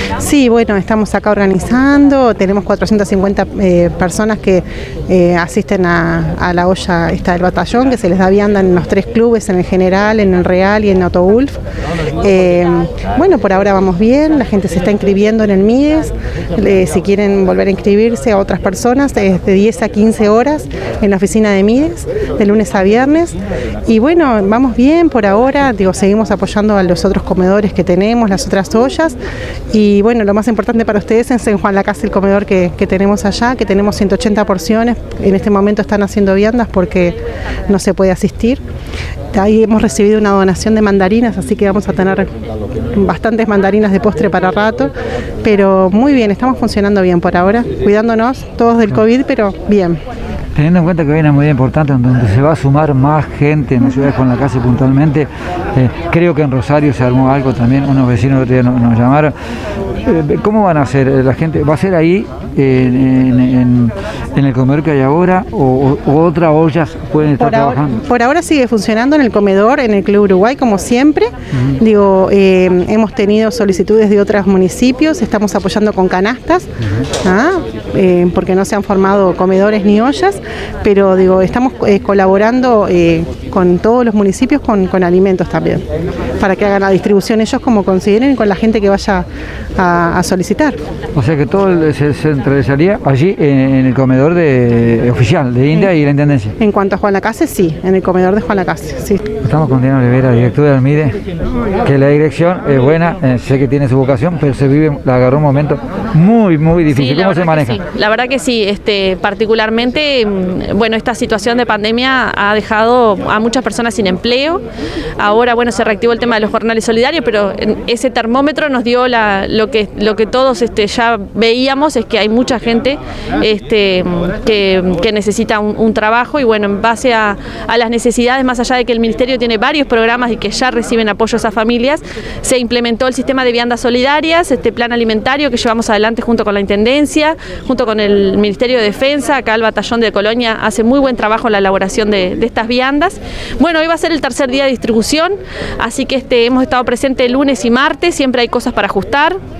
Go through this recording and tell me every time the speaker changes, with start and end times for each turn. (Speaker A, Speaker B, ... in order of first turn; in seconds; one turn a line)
Speaker A: 0.2-11.6
Speaker A: 12.2-29.2
Speaker A: 29.7-37.2
Speaker A: 37.7-38.6
Speaker A: 39.3-42.3
Speaker A: 42.9-50.0
Speaker B: 50.5-59.3
Speaker B: 60.0-68.0
Speaker A: 67.4-76.7
Speaker A: 77.2-85.8
Speaker A: 86.4-90.8
Speaker B: 91.2-96.5
Speaker A: 96.6-99.3
Speaker B: 99.4-101.2
Speaker B: 101.8-107.8
Speaker C: 106.9-114.6
Speaker C: 115.2-149.4